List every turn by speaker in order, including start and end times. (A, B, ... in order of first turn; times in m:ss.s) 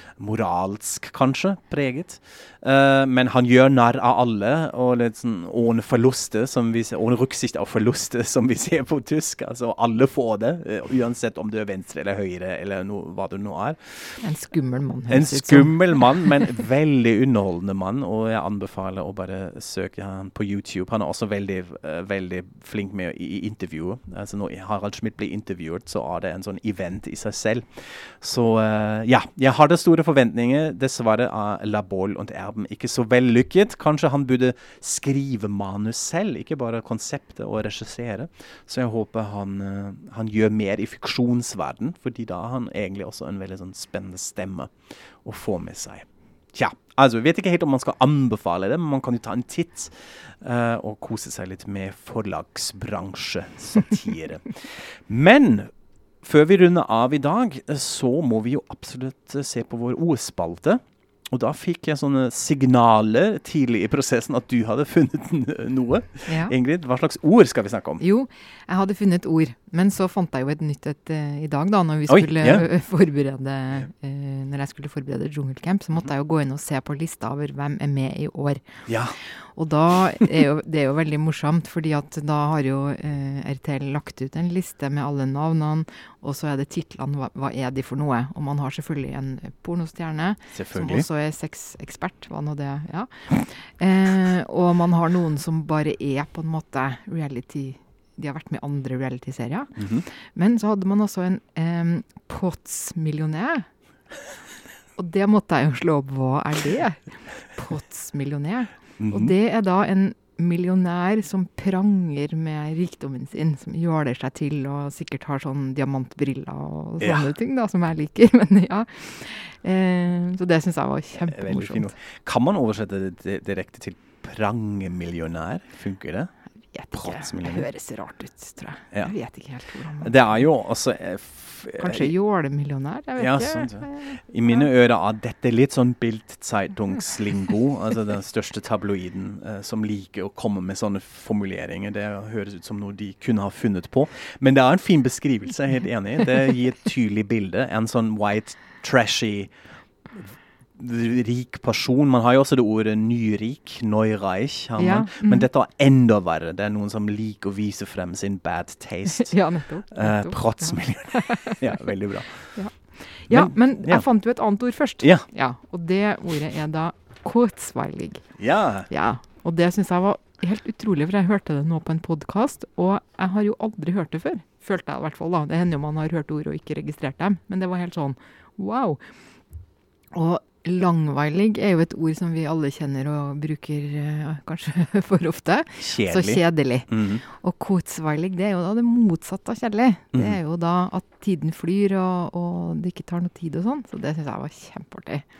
0:00.2-0:14.2 A
0:14.2-0:16.3 B
0:15.1-0:55.7 A
0:56.2-1:00.8 A
1:01.3-1:08.0 A
1:06.3-1:06.5 B
1:08.0-1:43.7 B
1:12.1-1:12.6 A
1:18.9-1:19.2 A
1:30.5-1:31.0 A
1:39.8-1:40.0 A
1:45.0-2:01.9 B
1:49.0-1:49.3 A
1:57.0-1:57.3 A
2:01.2-2:06.3 A
2:06.7-2:10.4 B
2:06.9-2:07.7 A
2:10.0-2:12.1 A
2:11.8-2:14.6 B
2:13.2-2:29.5 A
2:30.1-2:39.3 A
2:34.8-2:35.5 B
2:39.1-2:41.8 B
2:39.9-2:42.6 A
2:42.5-2:48.3 B
2:43.3-2:44.0 A
2:48.4-2:48.9 A
2:48.9-2:59.0 B
3:00.1-3:15.2 B
3:05.8-3:07.2 A
3:10.1-3:10.4 A